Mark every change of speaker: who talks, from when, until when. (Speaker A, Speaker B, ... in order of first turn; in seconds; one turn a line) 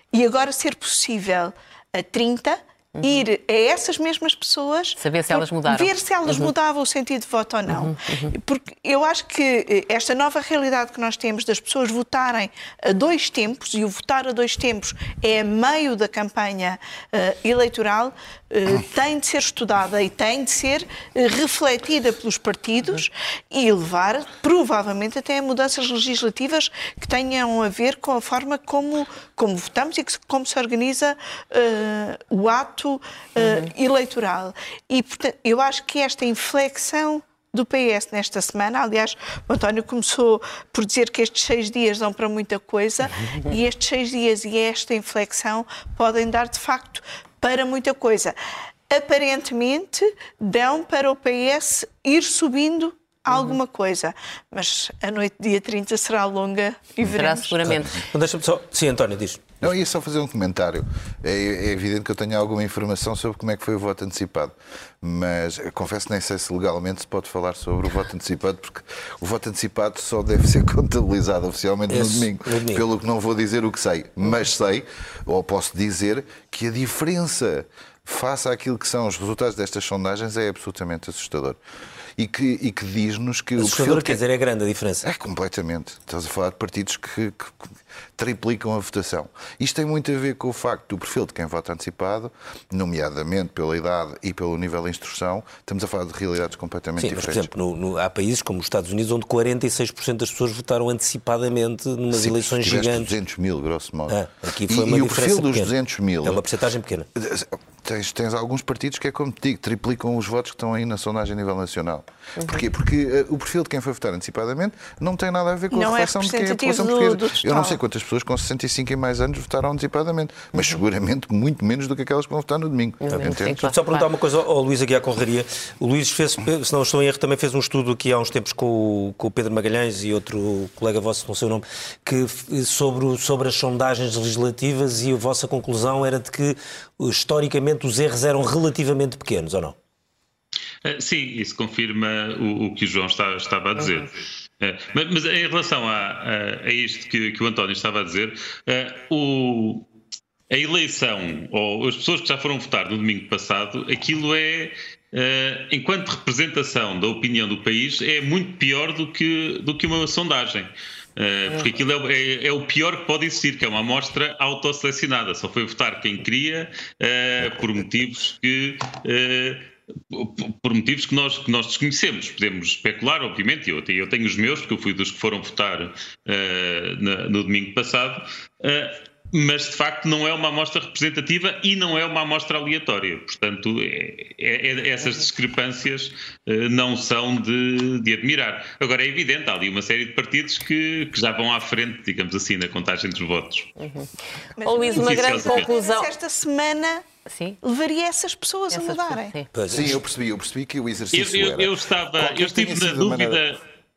Speaker A: 0.1-48.4
Speaker B: 3.0-3.2
Speaker B: 5.0-6.5
Speaker B: 7.7-8.3
Speaker B: 33.4-33.7
Speaker A: 48.9-57.6
Speaker B: 57.1-58.0
Speaker C: 58.1-59.6
Speaker D: 59.6-81.6
Speaker C: 71.9-72.8
Speaker D: 82.2-84.2
Speaker C: 83.6-85.1
Speaker D: 85.0-97.5
Speaker C: 97.0-103.1
Speaker D: 102.1-106.4
Speaker C: 104.1-105.7
Speaker C: 106.2-107.1
Speaker D: 107.2-123.5
Speaker B: 112.4-112.6
Speaker A: 115.7-117.8
Speaker B: 123.0-124.1
Speaker C: 123.1-139.8
Speaker E: 140.8-149.8
Speaker E: 150.5-193.7
Speaker B: 193.8-194.1
Speaker A: 194.6-197.1
Speaker B: 194.6-196.1
Speaker E: 194.9-195.7
Speaker B: 197.2-197.6
Speaker A: 197.6-199.3
Speaker B: 198.7-199.5
Speaker C: 199.5-200.0
Speaker D: 199.7-203.4
Speaker E: 201.1-203.6